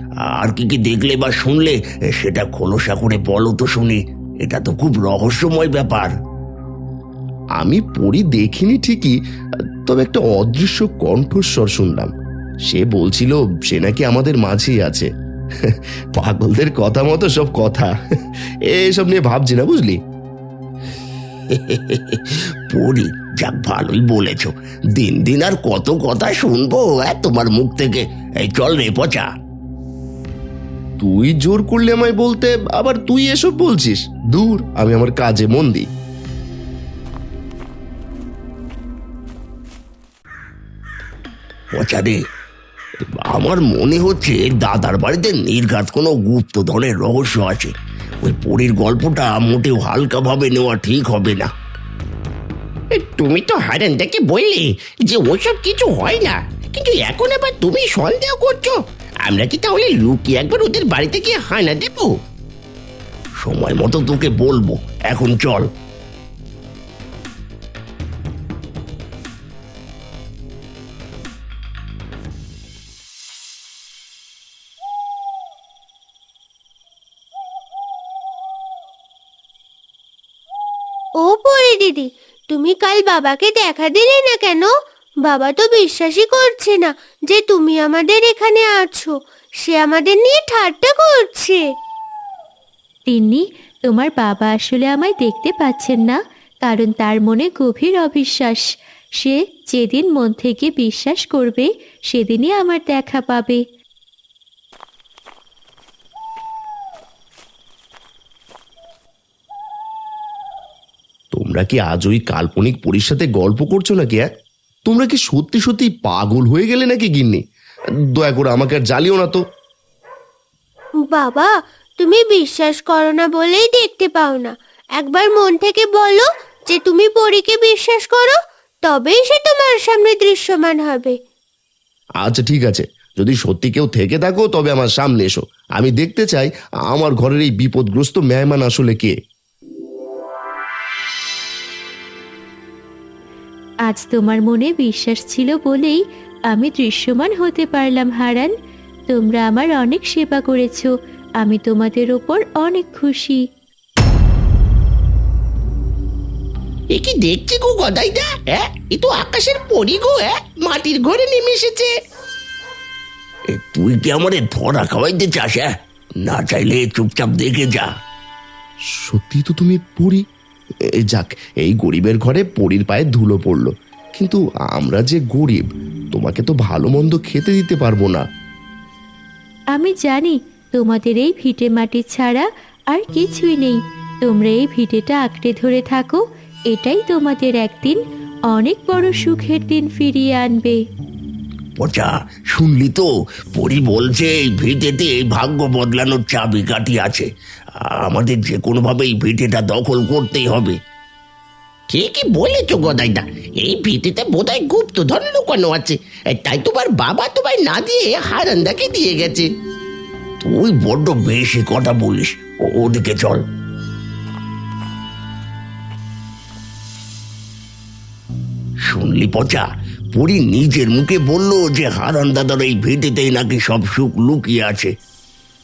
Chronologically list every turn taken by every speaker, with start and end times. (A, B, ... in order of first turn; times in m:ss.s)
0:00.2-0:06.1 A
0:07.6-0:09.2 B
0:09.8-0:12.1 B
0:12.7-0:15.1 B
0:15.6-0:17.9 B
0:18.7-0:20.0 B
0:21.5-0:29.3 A
0:31.0-0:35.9 B
0:41.7-0:42.2 A
0:43.2-0:51.5 A
0:52.9-1:02.2 A
1:03.4-1:05.7 A
1:21.2-1:24.7 C
1:25.2-1:31.6 C
1:33.1-1:38.7 D
1:39.2-1:43.6 D
1:51.3-1:54.3 B
1:54.8-1:57.4 B
1:58.2-1:59.4 B
2:01.1-2:11.2 C
2:12.2-2:19.1 B
2:23.9-2:28.5 D
2:29.1-2:33.4 D
2:36.9-2:41.9 A
2:43.5-2:45.7 A
2:46.2-2:47.9 A
2:48.9-2:50.2 B
2:51.0-2:58.2 B
2:59.7-3:10.8 D
3:11.8-3:17.3 A
3:17.8-3:20.8 A
3:21.9-3:29.5 A
3:30.4-3:33.4 A
3:38.9-3:44.9 A